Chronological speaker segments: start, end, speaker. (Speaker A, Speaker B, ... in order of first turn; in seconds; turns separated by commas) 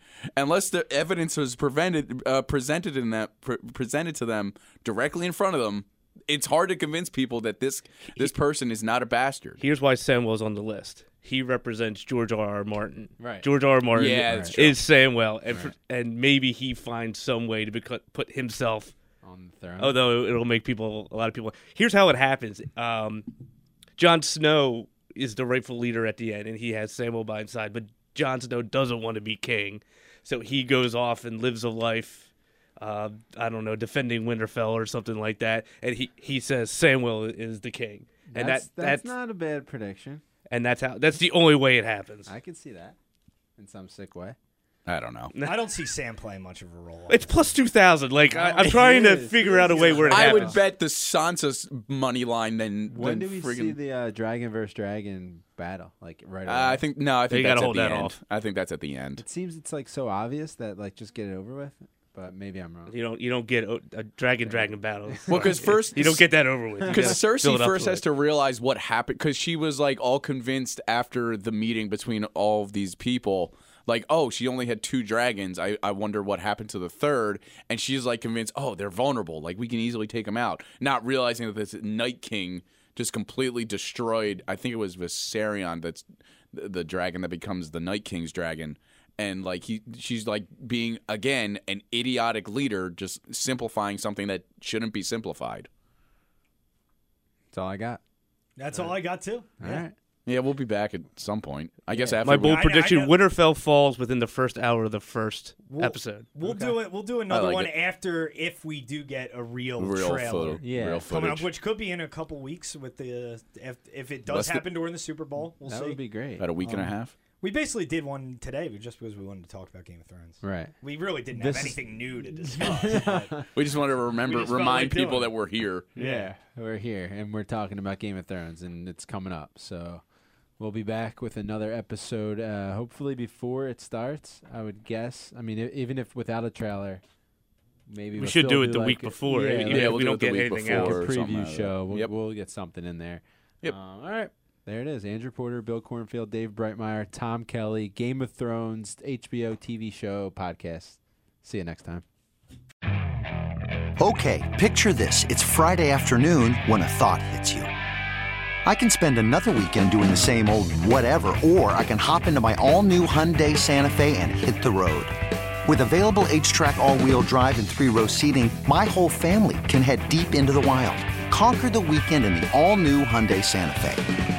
Speaker A: 0.3-9.6, Speaker B: 9.6-18.9, Speaker C: 13.2-13.5, Speaker A: 13.9-14.8, Speaker C: 14.0-14.6, Speaker C: 15.5-15.7, Speaker C: 19.2-20.0, Speaker B: 19.8-23.2, Speaker B: 24.0-39.1, Speaker C: 38.3-40.2, Speaker B: 40.5-42.3, Speaker C: 42.2-43.0, Speaker C: 43.6-44.4, Speaker A: 44.9-45.3, Speaker B: 45.3-45.8, Speaker D: 45.4-47.4, Speaker B: 47.1-50.6, Speaker C: 48.3-50.6, Speaker A: 48.6-48.9, Speaker D: 49.7-50.2, Speaker A: 50.1-53.8, Speaker C: 52.9-56.8, Speaker A: 56.5-59.2, Speaker B: 57.3-58.2, Speaker C: 59.2-62.9, Speaker B: 62.9-68.0, Speaker C: 64.5-65.8, Speaker A: 65.3-66.2, Speaker C: 66.8-67.2, Speaker A: 66.8-95.7, Speaker C: 97.5-98.0, Speaker D: 98.6-99.8, Speaker C: 99.6-99.9, Speaker A: 100.2-102.6, Speaker C: 101.9-102.2, Speaker B: 102.2-106.3, Speaker D: 102.4-103.2, Speaker D: 105.6-116.0, Speaker C: 106.4-106.7, Speaker A: 107.3-107.7, Speaker A: 109.8-111.5, Speaker C: 110.6-111.1, Speaker A: 114.3-114.6, Speaker C: 115.6-117.0, Speaker A: 116.4-117.1, Speaker D: 117.4-125.3, Speaker C: 120.4-120.7, Speaker C: 121.3-123.5, Speaker A: 123.5-125.9, Speaker D: 125.9-126.3, Speaker C: 125.9-130.0, Speaker C: 130.6-137.0, Speaker C: 137.9-140.0, Speaker B: 138.2-141.1, Speaker A: 139.7-142.1, Speaker C: 140.7-152.0, Speaker E: 154.0-157.7, Speaker E: 158.6-174.1